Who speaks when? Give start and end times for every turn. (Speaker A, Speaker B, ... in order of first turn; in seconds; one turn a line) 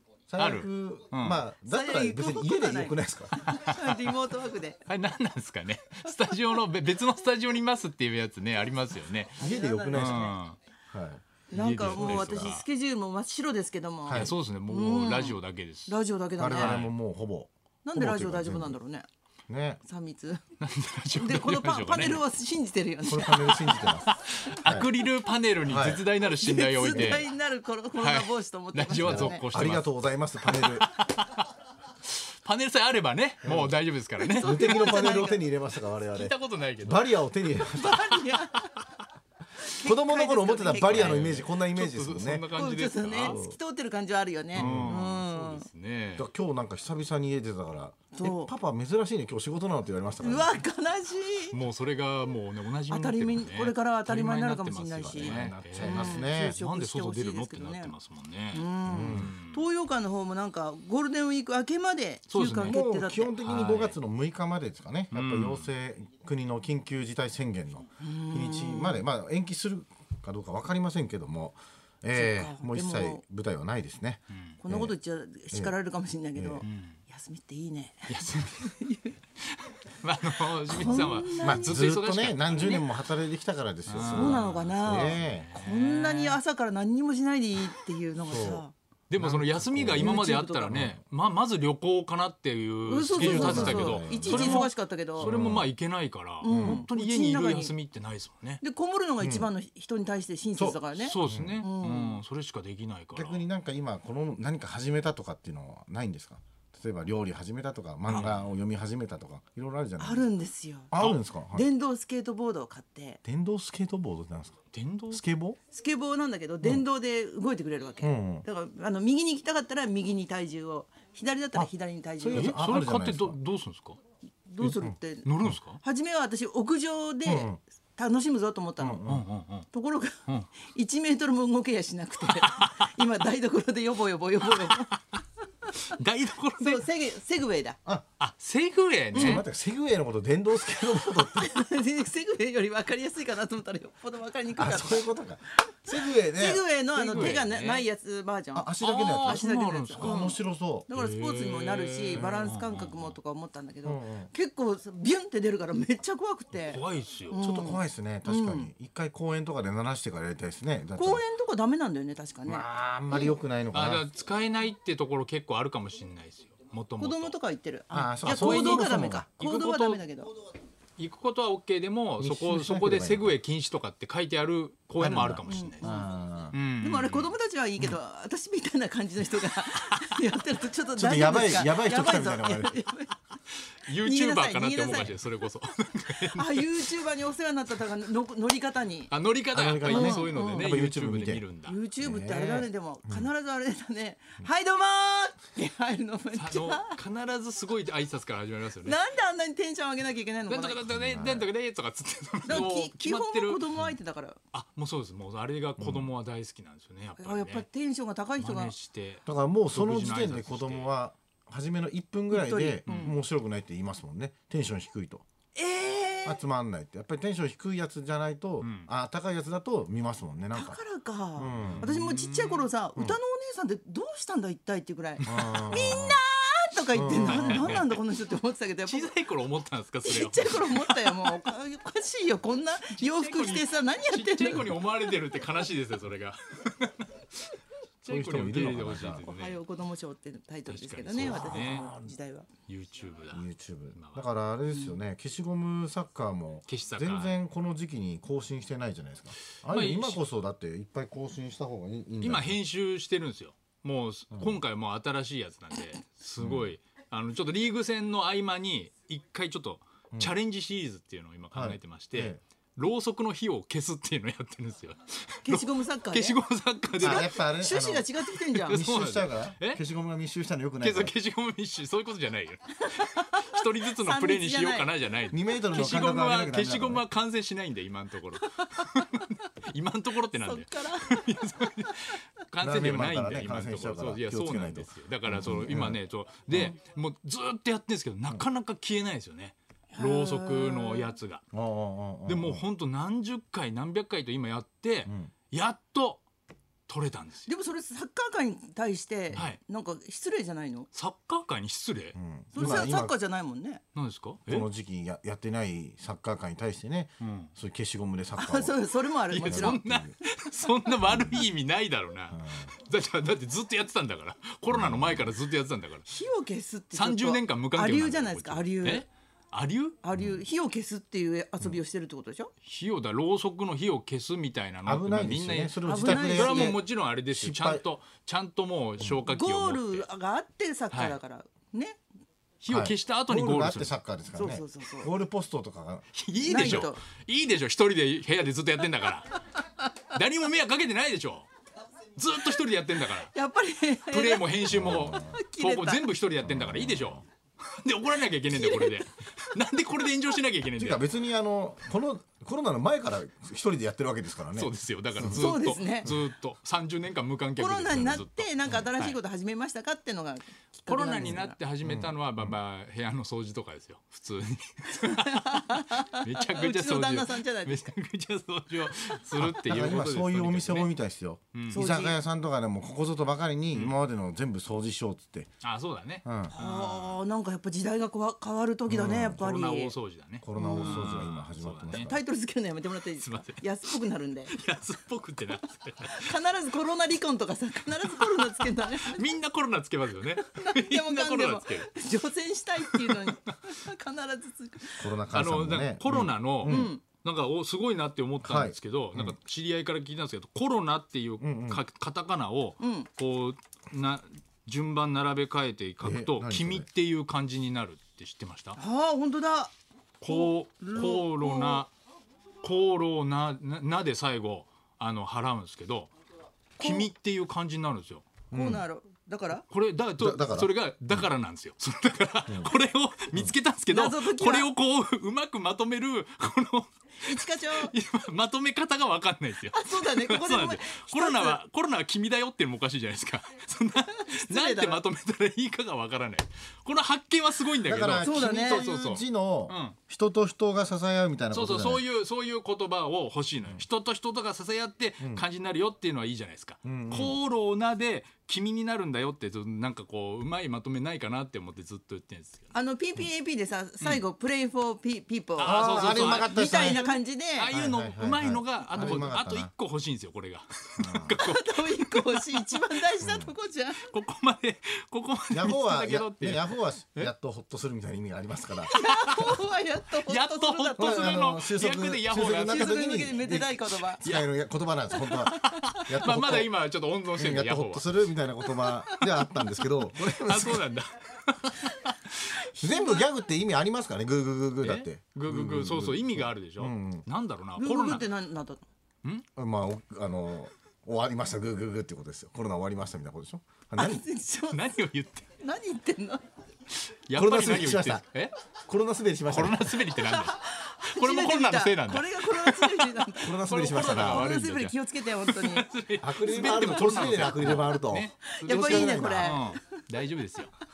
Speaker A: 0.3-3.4
Speaker B: 0.4-1.4
Speaker C: 1.7-4.8
Speaker B: 3.4-4.1
Speaker B: 4.8-9.4
Speaker A: 9.4-10.3
Speaker C: 9.4-10.3
Speaker B: 9.9-10.6
Speaker A: 10.9-12.6
Speaker C: 11.5-16.8
Speaker B: 11.5-12.6
Speaker A: 14.0-14.3
Speaker B: 14.1-16.0
Speaker A: 16.4-18.8
Speaker B: 16.5-16.9
Speaker C: 17.8-19.1
Speaker A: 19.5-19.8
Speaker C: 19.8-20.4
Speaker B: 20.6-22.2
Speaker C: 21.1-23.7
Speaker A: 23.0-24.1
Speaker B: 24.0-27.3
Speaker A: 24.6-24.9
Speaker A: 25.6-26.1
Speaker C: 26.4-29.4
Speaker A: 26.9-27.2
Speaker B: 28.0-29.9
Speaker A: 29.0-30.9
Speaker B: 30.4-31.5
Speaker B: 32.1-35.1
Speaker A: 33.4-33.8
Speaker C: 34.2-35.4
Speaker A: 34.4-38.0
Speaker B: 36.1-37.2
Speaker C: 37.7-38.8
Speaker B: 37.9-38.1
Speaker C: 39.6-41.4
Speaker A: 39.8-42.5
Speaker B: 40.9-43.4
Speaker C: 42.5-45.6
Speaker A: 43.2-43.6
Speaker A: 44.5-45.2
Speaker B: 44.5-46.3
Speaker A: 46.2-50.5
Speaker C: 48.1-48.5
Speaker C: 50.2-51.5
Speaker B: 51.5-59.6
Speaker C: 52.9-57.9
Speaker A: 55.0-56.6
Speaker C: 58.5-63.3
Speaker A: 58.9-59.3
Speaker B: 62.3-62.8
Speaker A: 62.6-74.9
Speaker B: 63.4-64.0
Speaker B: 65.1-65.7
Speaker C: 68.0-69.0
Speaker C: 72.1-73.2
Speaker C: 74.6-79.2
Speaker A: 76.3-76.6
Speaker B: 76.6-77.0
Speaker B: 78.1-78.8
Speaker B: 79.4-82.9
Speaker C: 80.7-81.8
Speaker A: 80.8-85.5
Speaker C: 82.6-82.8
Speaker B: 83.9-86.4
Speaker C: 84.0-88.7
Speaker A: 88.3-88.6
Speaker B: 89.1-98.6
Speaker A: 89.2-91.0
Speaker C: 89.9-90.8
Speaker C: 92.8-95.3
Speaker A: 93.2-94.7
Speaker A: 95.2-95.7
Speaker C: 96.4-97.7
Speaker A: 96.5-96.8
Speaker C: 98.6-102.2
Speaker A: 99.2-99.5
Speaker A: 100.6-101.6
Speaker B: 101.0-103.4
Speaker A: 103.1-110.2
Speaker B: 108.0-108.5
Speaker C: 110.0-113.2
Speaker A: 110.9-111.7
Speaker A: 113.2-114.6
Speaker B: 114.7-115.2
Speaker A: 115.1-115.6
Speaker C: 115.7-122.6
Speaker A: 118.0-118.4
Speaker A: 121.5-123.4
Speaker B: 122.3-124.0
Speaker C: 124.5-129.0
Speaker A: 124.6-125.5
Speaker B: 125.2-125.8
Speaker A: 127.2-127.6
Speaker A: 128.8-129.3
Speaker B: 129.1-129.7
Speaker C: 129.7-135.0
Speaker B: 132.3-132.8
Speaker B: 135.9-136.8
Speaker C: 136.6-137.8
Speaker B: 138.2-139.4
Speaker C: 139.1-139.4
Speaker A: 139.1-141.5
Speaker C: 141.0-145.1
Speaker A: 144.6-147.4
Speaker C: 145.7-158.7
Speaker B: 147.0-147.8
Speaker A: 148.5-149.4
Speaker B: 148.8-150.2
Speaker A: 150.0-150.9
Speaker B: 150.9-153.1
Speaker A: 152.1-152.5
Speaker A: 153.8-154.3
Speaker B: 156.5-157.4
Speaker A: 157.3-161.2
Speaker C: 160.9-163.3
Speaker A: 162.4-164.1
Speaker B: 163.7-167.3
Speaker C: 167.0-170.3
Speaker A: 167.9-169.2
Speaker B: 168.2-170.0
Speaker B: 171.0-175.8
Speaker A: 172.2-173.3
Speaker A: 175.0-176.6
Speaker C: 175.5-176.1
Speaker B: 176.5-177.3
Speaker C: 176.8-183.1
Speaker B: 179.6-180.1
Speaker A: 180.9-182.8
Speaker B: 183.8-187.0
Speaker C: 183.9-185.2
Speaker C: 186.2-189.1
Speaker B: 189.1-191.8
Speaker A: 189.5-191.4
Speaker C: 189.8-190.7
Speaker C: 191.7-197.0
Speaker A: 192.0-193.3
Speaker B: 196.3-199.0
Speaker C: 198.8-200.8
Speaker B: 200.5-203.6
Speaker A: 200.9-201.5
Speaker C: 202.4-204.4
Speaker B: 204.5-207.6
Speaker A: 205.8-206.1
Speaker C: 207.2-208.7
Speaker B: 208.4-210.9
Speaker A: 209.2-215.2
Speaker C: 212.3-213.1
Speaker B: 212.9-213.1
Speaker C: 215.5-216.4
Speaker A: 216.2-220.8
Speaker B: 218.6-218.9
Speaker C: 220.5-229.1
Speaker A: 221.3-221.9
Speaker B: 221.6-222.7
Speaker B: 225.2-225.9
Speaker A: 225.2-226.2
Speaker A: 226.9-227.8
Speaker B: 227.2-228.0
Speaker B: 228.8-231.4
Speaker C: 230.0-234.8
Speaker B: 232.9-237.5
Speaker B: 238.0-239.6
Speaker A: 238.1-239.2
Speaker C: 239.2-242.5
Speaker B: 240.7-241.9
Speaker A: 241.2-242.1
Speaker B: 242.7-244.2
Speaker A: 243.3-252.6
Speaker C: 244.7-245.0
Speaker B: 246.7-247.3
Speaker B: 249.7-250.2
Speaker B: 252.2-267.3
Speaker A: 254.3-254.6
Speaker A: 256.4-256.7
Speaker A: 261.5-262.4
Speaker C: 265.4-266.4
Speaker A: 267.0-268.1
Speaker C: 267.0-268.8
Speaker B: 268.4-269.8
Speaker A: 268.7-271.1
Speaker B: 270.8-291.5
Speaker C: 272.9-274.9
Speaker A: 275.3-277.0
Speaker C: 278.6-278.9
Speaker C: 280.3-281.4
Speaker A: 282.6-286.0
Speaker A: 286.5-286.8
Speaker C: 289.9-291.1
Speaker A: 291.5-292.6
Speaker B: 292.2-296.2
Speaker A: 295.1-295.3
Speaker B: 296.9-297.5
Speaker C: 297.4-300.9
Speaker B: 300.9-302.9
Speaker A: 302.1-303.1
Speaker C: 302.5-303.8
Speaker B: 303.9-304.7
Speaker A: 304.5-308.8
Speaker B: 307.2-307.5
Speaker C: 308.4-309.8
Speaker B: 309.3-316.1
Speaker A: 309.4-310.1
Speaker A: 311.1-311.4
Speaker A: 312.3-312.7
Speaker A: 314.7-315.3
Speaker C: 316.1-319.0
Speaker B: 316.9-320.0
Speaker C: 320.0-322.5
Speaker A: 320.1-320.4
Speaker B: 322.6-330.1
Speaker A: 324.8-327.8
Speaker C: 325.8-326.8
Speaker C: 329.3-332.0
Speaker B: 330.9-331.2
Speaker B: 332.6-333.9
Speaker A: 332.7-336.1
Speaker C: 334.3-335.1
Speaker B: 336.1-339.4
Speaker C: 336.4-337.0
Speaker B: 340.0-341.5
Speaker B: 342.1-343.3
Speaker C: 343.2-346.1
Speaker B: 344.1-351.0
Speaker A: 344.7-345.4
Speaker A: 346.4-347.2
Speaker C: 348.4-349.0
Speaker A: 350.8-355.5
Speaker B: 354.5-359.2
Speaker C: 355.2-356.1
Speaker C: 357.6-361.6
Speaker B: 360.9-370.9
Speaker A: 361.2-362.6
Speaker C: 364.9-367.8
Speaker A: 369.4-375.5
Speaker B: 371.5-371.9
Speaker C: 371.7-372.2
Speaker B: 375.6-377.2
Speaker A: 376.2-376.5
Speaker C: 376.5-379.9
Speaker A: 378.9-379.4
Speaker B: 379.4-382.1
Speaker A: 380.4-382.2
Speaker C: 380.6-381.1
Speaker C: 381.9-384.5
Speaker B: 383.2-383.9
Speaker B: 384.5-386.4
Speaker C: 386.0-389.2
Speaker B: 387.9-392.0
Speaker C: 390.4-395.1
Speaker B: 392.8-393.5
Speaker A: 395.0-396.9
Speaker B: 395.3-408.8
Speaker C: 396.6-397.0
Speaker A: 398.4-399.4
Speaker A: 401.4-401.8
Speaker C: 402.8-403.1
Speaker A: 406.0-406.9
Speaker C: 408.8-409.7
Speaker B: 410.2-411.9
Speaker C: 410.3-411.9
Speaker B: 412.6-416.1
Speaker B: 416.8-418.3
Speaker C: 416.8-417.1
Speaker C: 418.5-419.6
Speaker A: 418.5-418.8
Speaker B: 419.7-440.0
Speaker A: 420.2-421.3
Speaker A: 422.5-422.7
Speaker C: 423.9-424.7
Speaker C: 427.2-427.9
Speaker C: 429.7-431.6
Speaker C: 434.1-435.0
Speaker A: 437.8-442.0
Speaker C: 438.2-438.9
Speaker B: 441.5-452.7
Speaker A: 445.2-445.4
Speaker A: 446.8-447.4
Speaker C: 452.7-457.7
Speaker B: 455.6-463.0
Speaker A: 455.6-457.0
Speaker A: 457.7-459.7
Speaker A: 461.0-461.4
Speaker C: 461.4-464.1
Speaker A: 463.2-463.5
Speaker B: 464.0-467.3
Speaker A: 465.5-468.9
Speaker B: 468.9-469.6
Speaker C: 468.9-471.4
Speaker B: 470.2-473.2
Speaker A: 471.0-476.7
Speaker C: 472.4-474.2
Speaker B: 474.2-474.5
Speaker B: 475.1-478.1
Speaker C: 475.5-475.8
Speaker A: 477.4-480.9
Speaker B: 479.6-482.7
Speaker C: 482.7-483.2
Speaker A: 482.7-487.3
Speaker B: 484.8-488.3
Speaker C: 487.8-488.8
Speaker A: 489.6-494.2
Speaker C: 493.9-494.8
Speaker B: 494.7-495.5
Speaker C: 495.6-496.4
Speaker B: 497.1-498.5
Speaker A: 497.3-498.2
Speaker A: 498.8-500.0
Speaker B: 499.5-510.7
Speaker C: 500.1-505.9
Speaker A: 503.4-504.5
Speaker A: 506.2-509.6
Speaker C: 506.6-507.8
Speaker C: 508.5-509.9